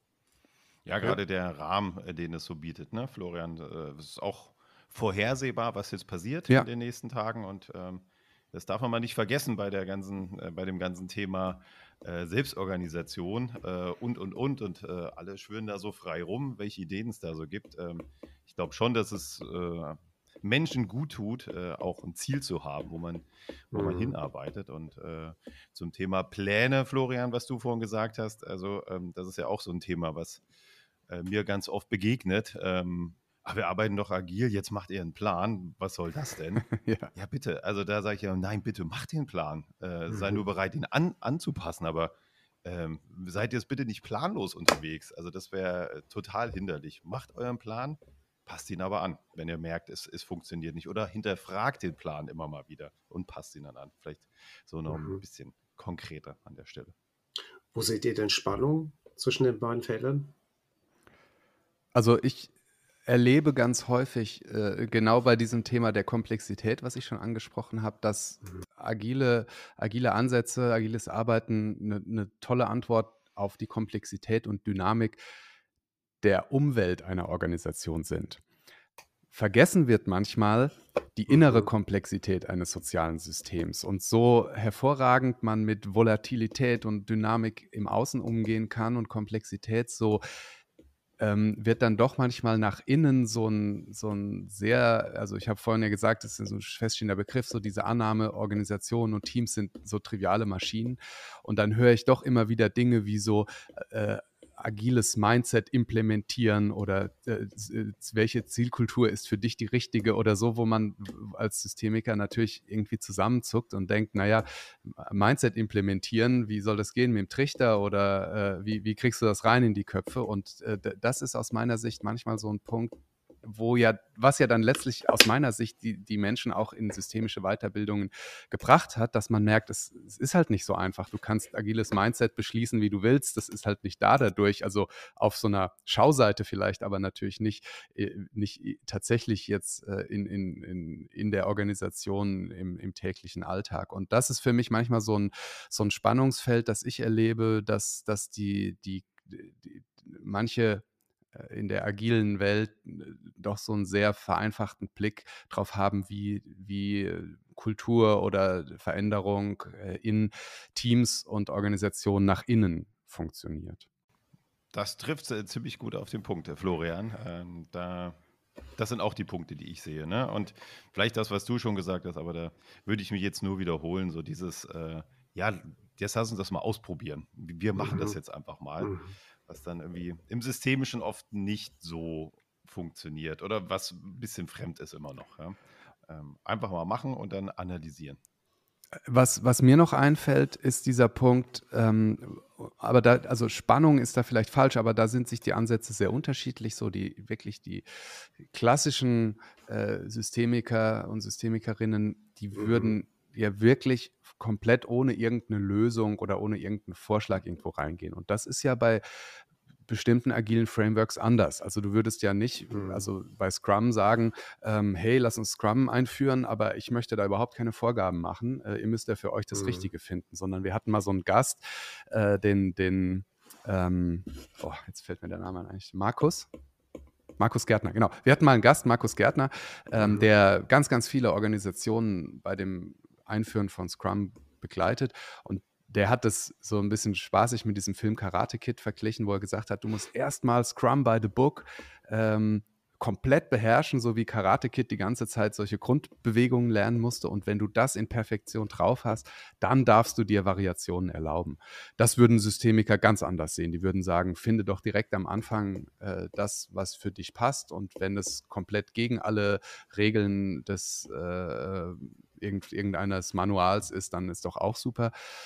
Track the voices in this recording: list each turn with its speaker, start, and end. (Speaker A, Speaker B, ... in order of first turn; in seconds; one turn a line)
Speaker A: 0.8-30.4
Speaker B: 23.7-24.1
Speaker A: 31.1-56.9
Speaker C: 36.6-37.1
Speaker B: 40.1-40.4
Speaker B: 54.9-55.2
Speaker B: 57.7-60.3
Speaker C: 61.9-62.5
Speaker C: 63.0-75.2
Speaker C: 76.2-78.4
Speaker C: 79.3-90.2
Speaker B: 81.3-81.7
Speaker C: 91.2-150.8
Speaker C: 151.3-163.9
Speaker A: 164.7-168.2
Speaker A: 168.8-188.2
Speaker B: 177.8-178.2
Speaker B: 178.8-179.1
Speaker C: 189.1-197.8
Speaker C: 198.5-209.0
Speaker B: 202.5-202.9
Speaker C: 209.9-226.5
Speaker B: 212.7-213.0
Speaker B: 219.5-219.9
Speaker C: 227.4-265.1
Speaker B: 230.0-230.3